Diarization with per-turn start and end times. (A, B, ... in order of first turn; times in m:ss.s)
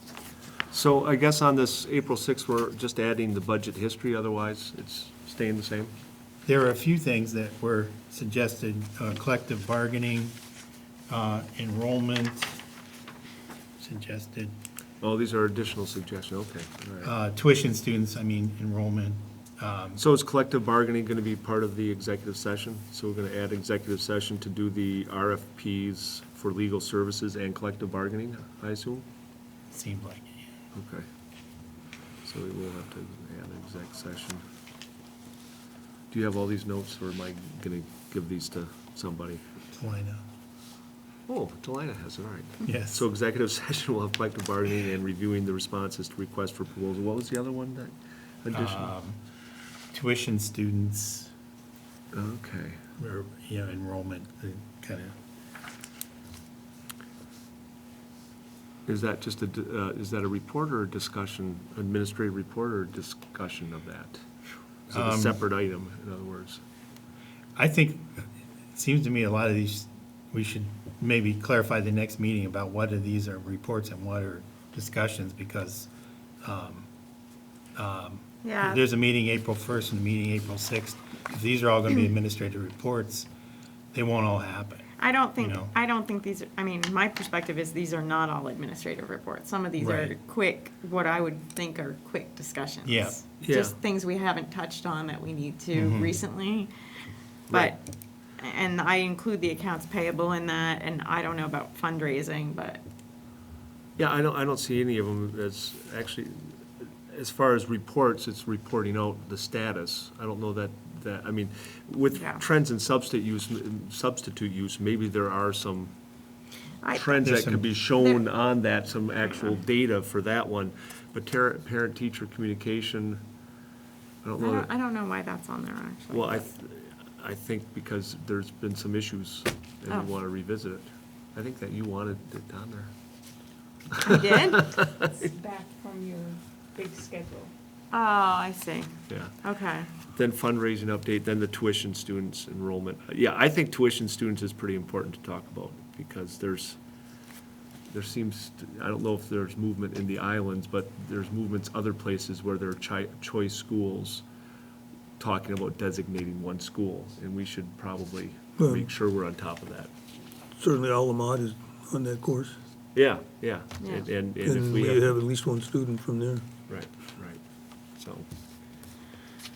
0:00.7-0:05.9 A
0:06.5-0:10.4 B
0:11.1-0:12.6 B
0:13.8-0:14.5 B
0:15.0-0:17.1 A
0:17.0-0:20.0 B
0:20.0-0:29.0 A
0:29.7-0:30.4 B
0:30.7-0:31.0 A
0:32.2-0:34.4 A
0:36.1-0:39.4 A
0:39.7-0:40.2 B
0:41.3-0:48.9 A
0:42.6-0:43.0 B
0:48.5-0:49.2 B
0:49.9-0:51.3 B
0:52.1-0:52.8 A
0:53.0-0:55.2 B
0:58.9-1:04.2 A
1:04.9-1:06.6 A
1:04.9-1:05.4 B
1:07.6-1:15.9 B
1:16.4-1:16.9 B
1:17.8-1:23.3 B
1:18.4-1:18.8 C
1:23.9-1:25.7 B
1:25.0-1:37.8 C
1:29.8-1:30.1 B
1:32.8-1:33.2 B
1:33.4-1:33.8 A
1:35.7-1:36.1 B
1:38.4-1:42.8 C
1:44.0-1:55.9 A
1:52.2-1:52.4 C
1:56.8-1:57.1 C
1:56.9-2:03.2 A
1:57.2-1:57.6 B
1:58.0-1:58.2 C
2:04.2-2:04.7 A
2:04.4-2:06.5 C
2:06.1-2:12.9 A
2:14.0-2:14.9 C
2:14.2-2:15.1 A
2:15.3-2:17.5 D
2:17.9-2:19.9 C
2:19.1-2:19.4 A
2:20.1-2:26.8 A
2:27.9-2:34.2 A
2:35.2-2:39.9 A
2:38.6-2:38.9 E
2:40.6-2:42.6 E
2:42.9-2:45.2 A
2:43.8-2:44.1 C
2:44.4-2:46.4 E
2:46.7-2:47.4 A
2:48.0-2:48.3 A